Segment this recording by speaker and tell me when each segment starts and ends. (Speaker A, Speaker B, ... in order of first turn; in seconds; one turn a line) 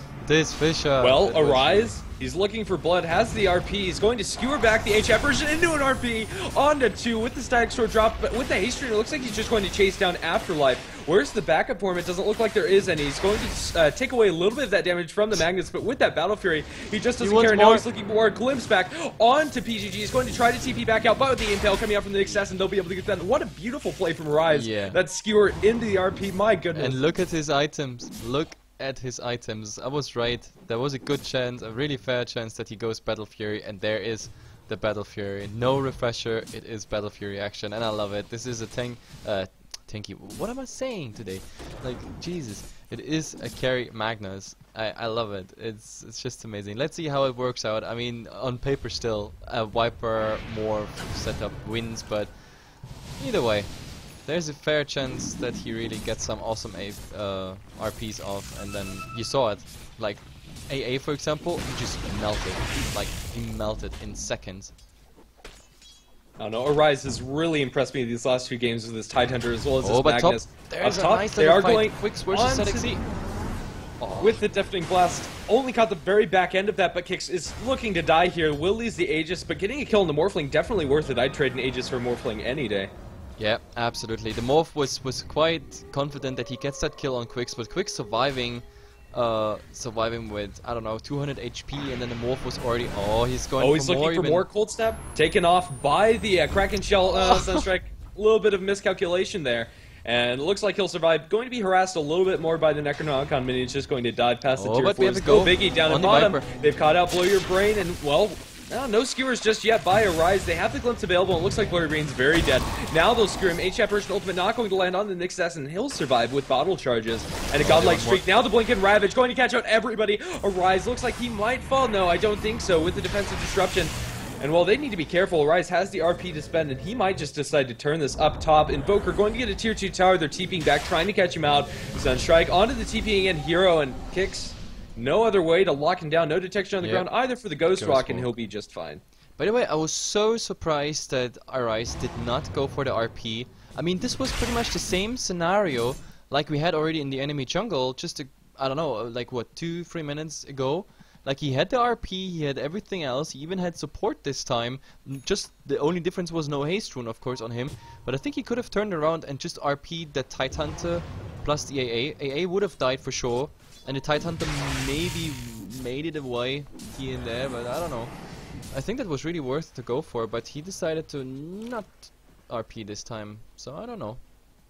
Speaker A: 0.2-1.9
Speaker B: 1.0-27.0
Speaker A: 17.2-17.8
Speaker A: 24.5-25.0
Speaker A: 26.8-52.3
Speaker A: 53.2-53.7
Speaker A: 54.3-64.7
Speaker B: 66.4-72.9
Speaker A: 69.8-73.0
Speaker A: 74.0-74.4
Speaker B: 74.2-82.9
Speaker A: 83.4-94.5
Speaker B: 93.6-139.0
Speaker A: 97.1-97.7
Speaker A: 104.6-106.5
Speaker A: 117.6-118.2
Speaker A: 136.8-137.1
Speaker A: 137.8-138.3
Speaker A: 139.4-168.1
Speaker A: 168.7-174.2